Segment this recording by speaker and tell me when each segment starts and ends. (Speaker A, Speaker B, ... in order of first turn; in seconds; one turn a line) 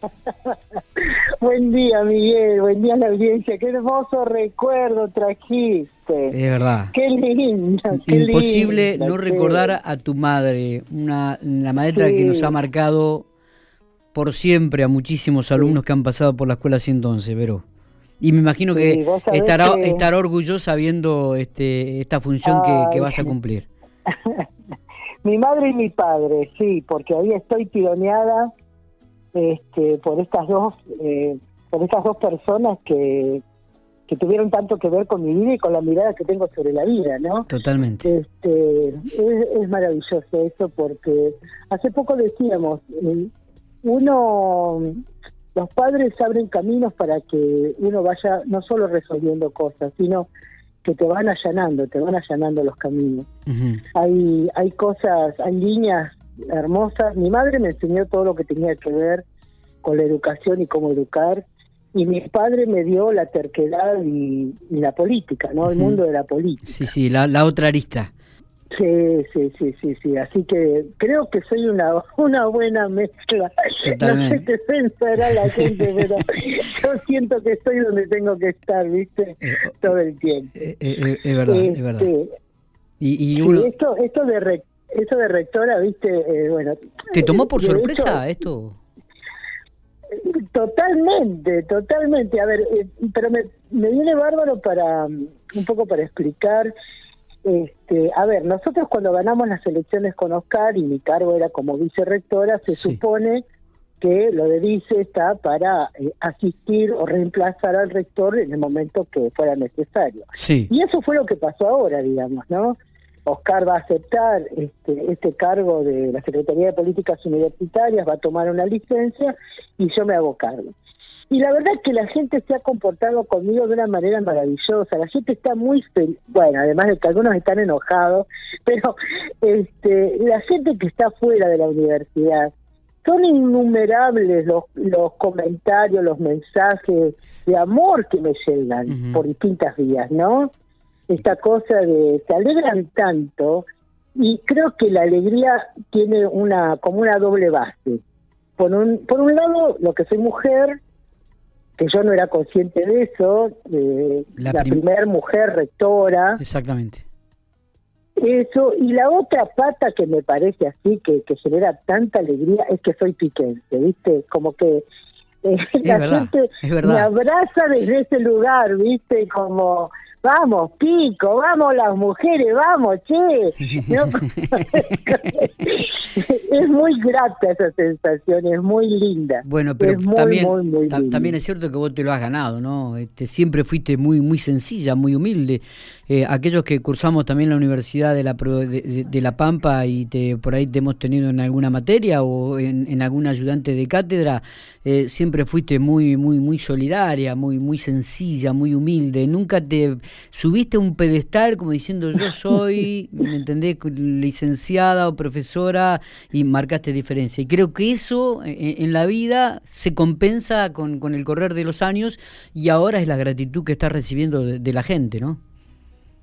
Speaker A: 0.3-6.3
Speaker B: 6.3-6.9
Speaker A: 6.9-9.7
Speaker B: 7.9-13.2
Speaker A: 11.9-12.5
Speaker B: 14.1-17.6
Speaker B: 18.2-23.7
Speaker A: 18.7-20.1
Speaker A: 22.4-23.3
Speaker A: 24.1-24.5
Speaker A: 25.2-28.5
Speaker A: 29.3-33.4
Speaker A: 34.1-37.5
Speaker B: 37.5-38.1
Speaker A: 38.0-43.3
Speaker A: 43.8-44.9
Speaker A: 45.5-50.3
Speaker A: 50.8-53.3
Speaker B: 53.5-53.8
Speaker A: 53.9-59.2
Speaker A: 59.8-61.4
Speaker A: 61.9-66.7
Speaker B: 65.7-66.0
Speaker B: 66.7-68.1
Speaker A: 68.7-80.5
Speaker B: 73.8-74.5
Speaker B: 79.4-79.8
Speaker B: 80.6-82.1
Speaker A: 81.5-82.3
Speaker B: 83.0-83.7
Speaker A: 83.4-88.2
Speaker B: 87.1-88.8
Speaker A: 90.1-96.7
Speaker A: 97.4-103.4
Speaker B: 102.7-103.0
Speaker A: 104.0-120.7
Speaker B: 110.4-110.7
Speaker A: 121.3-132.5
Speaker A: 133.0-140.5
Speaker B: 138.9-139.2
Speaker A: 141.1-143.6
Speaker A: 144.2-148.0
Speaker A: 148.6-150.8
Speaker A: 151.8-156.4
Speaker B: 154.4-154.8
Speaker B: 156.4-157.0
Speaker A: 158.2-164.8
Speaker A: 165.4-181.3
Speaker B: 165.8-167.1
Speaker B: 174.3-175.3
Speaker B: 179.4-215.4